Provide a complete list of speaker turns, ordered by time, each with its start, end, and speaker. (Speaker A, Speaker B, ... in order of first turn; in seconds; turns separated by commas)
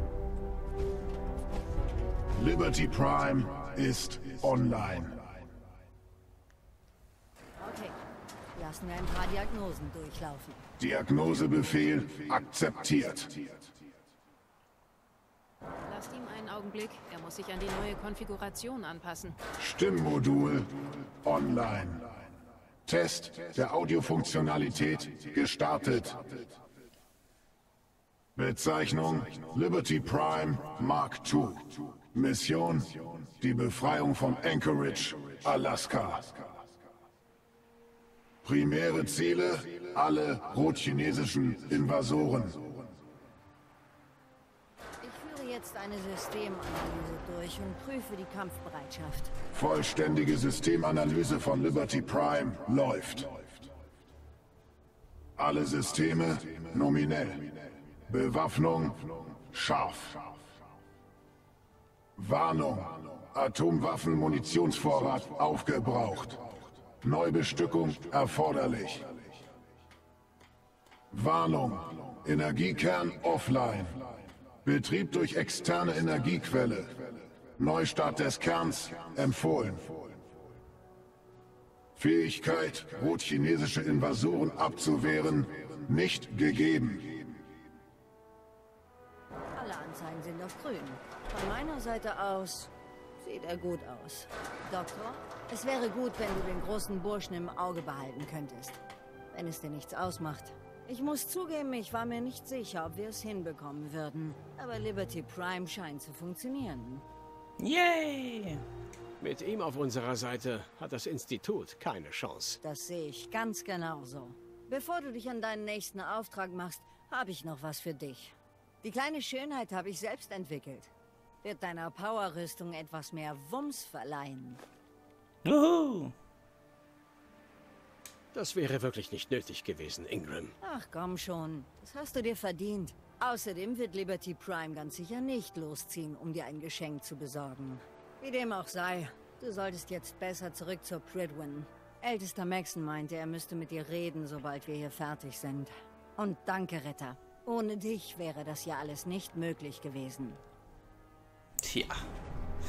Speaker A: 2.4-5.3, Speaker B: 7.6-8.0, Speaker B: 8.6-10.7, Speaker A: 10.8-13.6, Speaker C: 15.9-19.4, Speaker A: 19.6-22.1, Speaker A: 22.9-26.4, Speaker A: 28.4-36.5, Speaker A: 38.4-42.8, Speaker B: 45.0-49.3, Speaker A: 49.5-53.6, Speaker A: 55.4-60.3, Speaker A: 62.2-66.4, Speaker A: 67.0-69.2, Speaker A: 71.1-74.1, Speaker A: 74.7-80.1, Speaker A: 82.0-87.3, Speaker B: 89.5-98.8, Speaker B: 99.3-107.0, Speaker D: 107.6-108.6, Speaker E: 109.2-112.6, Speaker B: 112.6-120.9, Speaker B: 121.4-124.6, Speaker D: 125.5-126.1, Speaker E: 128.3-130.6, Speaker B: 130.6-150.4, Speaker D: 151.6-152.1